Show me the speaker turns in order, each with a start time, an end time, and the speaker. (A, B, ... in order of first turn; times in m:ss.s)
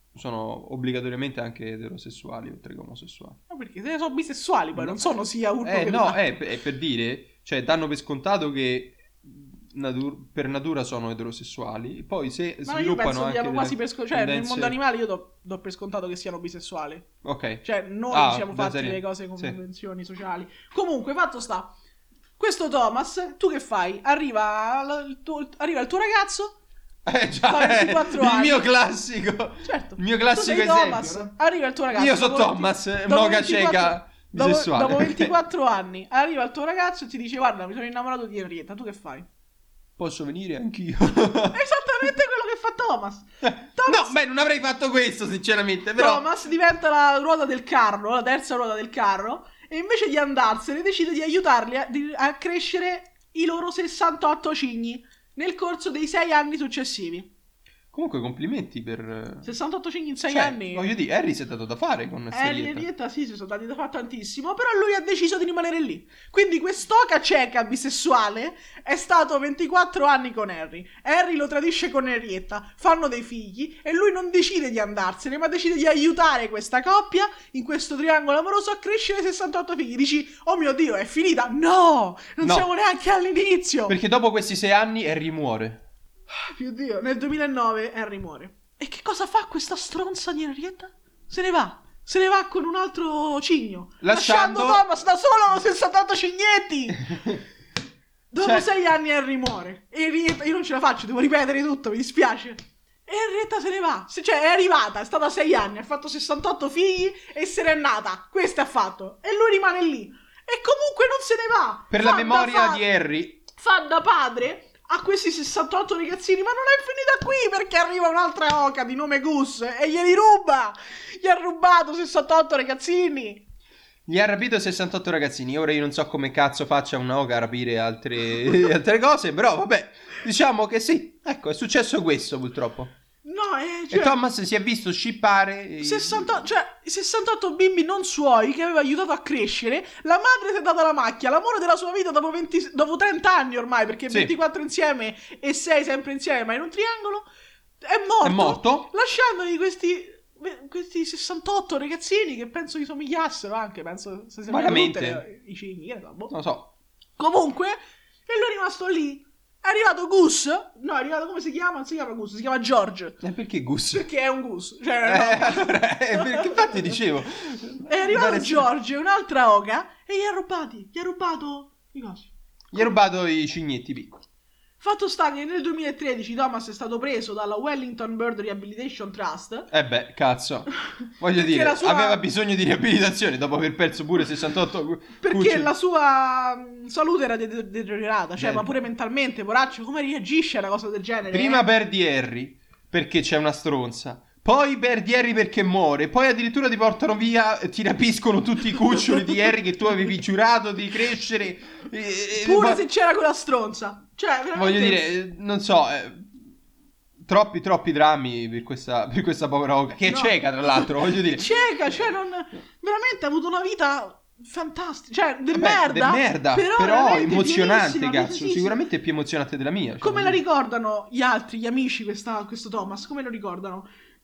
0:00.1-0:03.4 A
0:03.5-0:06.2 B
0:04.7-0:05.1 A
0:05.6-0:14.8 A
0:12.6-0:17.1 B
0:17.2-0:19.6 A
0:17.6-0:21.7 B
0:22.4-0:26.5 B
0:27.0-0:31.3 A
0:27.4-0:28.7 B
0:29.6-0:39.3 B
0:31.9-0:35.4 A
0:40.0-0:41.6 A
0:41.5-0:44.2 B
0:43.4-0:46.2 A
0:46.0-0:57.3 B
0:57.9-0:59.5 A
0:59.4-1:00.9 B
1:00.3-1:02.9 A
1:02.3-1:24.0 B
1:22.4-1:22.7 A
1:23.9-1:25.8 A
1:26.3-1:37.1 B
1:34.0-1:34.8 A
1:37.0-1:37.4 A
1:38.3-1:52.8 B
1:38.4-1:38.7 A
1:51.9-1:53.4 A
1:53.6-2:03.4 B
2:04.0-2:12.9 A
2:13.2-2:14.2 B
2:13.9-2:16.4 A
2:15.8-2:27.2 B
2:27.8-2:36.3 B
2:28.2-2:28.9 A
2:34.5-2:35.2 A
2:36.3-2:36.7 A
2:37.2-2:43.2 B
2:43.2-2:44.0 A
2:43.9-2:46.8 B
2:45.0-2:48.7 A
2:47.8-2:52.9 B
2:52.7-2:54.2 A
2:54.8-2:59.7 B
2:59.7-3:05.7 A
3:01.3-3:02.2 B
3:05.2-3:11.6 B
3:08.4-3:08.8 A
3:11.3-3:22.8 A
3:22.4-3:25.1 B
3:24.5-3:26.3 A
3:27.2-3:31.5 A
3:30.0-3:38.8 B
3:35.5-3:40.4 A
3:40.0-3:43.9 B